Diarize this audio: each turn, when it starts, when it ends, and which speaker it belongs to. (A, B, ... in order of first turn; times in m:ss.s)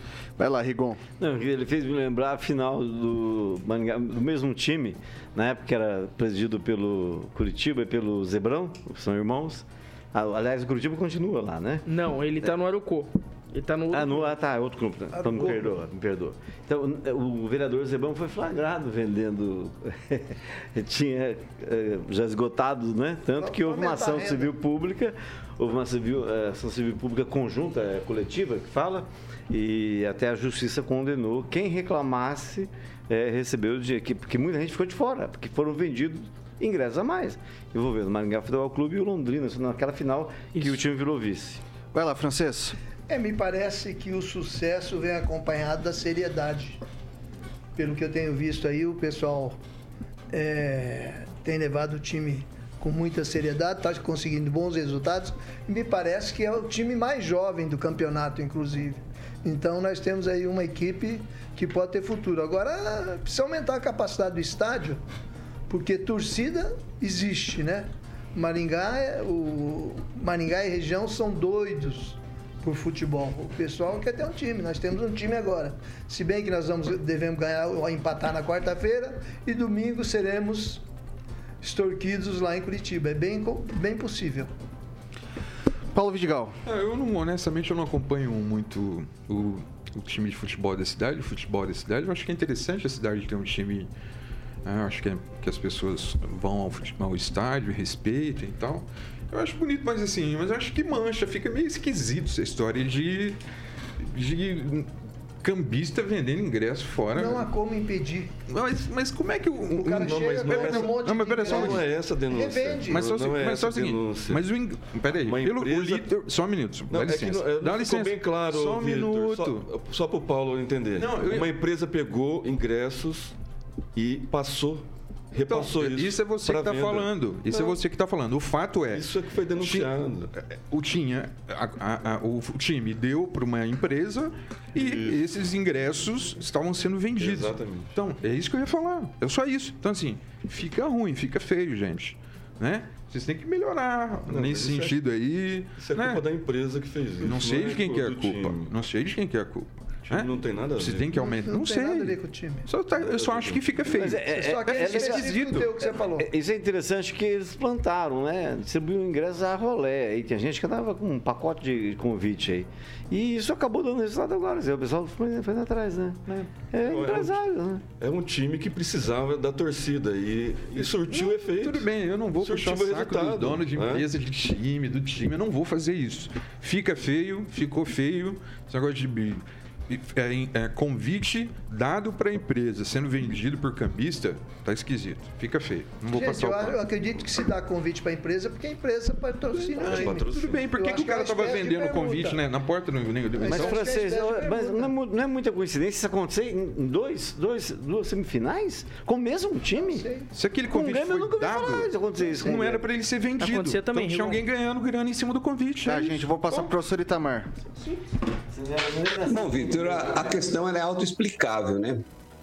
0:00.4-0:01.0 A
0:01.2-0:11.8 B
0:11.8-0:14.3 C
0:13.9-0:41.6 B
0:15.1-0:15.8 D
0:23.4-0:24.5 D
0:41.9-0:42.8 A
0:43.1-0:46.8 D
0:47.8-0:49.6 D
0:50.3-1:05.0 D
1:05.7-1:20.8 D
1:21.6-1:24.5 D
1:25.9-1:26.6 A
1:26.6-1:33.9 E
1:34.6-1:43.4 E
1:44.0-1:44.9 E
1:45.4-1:47.5 E
1:47.1-1:48.3 D
1:48.5-1:51.8 E
1:49.7-1:53.1 D
1:50.0-1:54.4 F
1:52.9-1:59.7 E
1:55.1-1:56.1 F
1:56.9-2:03.3 F
2:01.0-2:01.5 E
2:04.0-2:07.8 F
2:05.4-2:09.1 E
2:08.9-2:10.3 F
2:09.6-2:26.2 E
2:14.7-2:15.2 F
2:17.2-2:18.0 F
2:24.3-2:25.0 F
2:25.8-2:28.7 F
2:27.2-2:35.7 E
2:30.1-2:31.1 F
2:31.1-2:32.7 D
2:33.0-2:33.6 F
2:34.0-2:35.6 B
2:34.0-2:36.3 D
2:36.2-2:46.2 B
2:46.3-2:46.7 E
2:46.7-2:47.8 B
2:46.8-2:47.4 F
2:48.0-2:51.9 F
2:50.8-3:06.8 E
2:52.4-2:54.0 F
3:06.1-3:12.4 D
3:09.6-3:13.9 E
3:09.8-3:10.6 F
3:13.3-3:14.9 D
3:13.5-3:20.0 B
3:19.7-3:20.3 D
3:20.3-3:26.7 E
3:20.7-3:22.8 B
3:23.4-3:24.4 C
3:25.8-3:27.5 A
3:28.5-3:30.5 B
3:29.2-3:32.0 G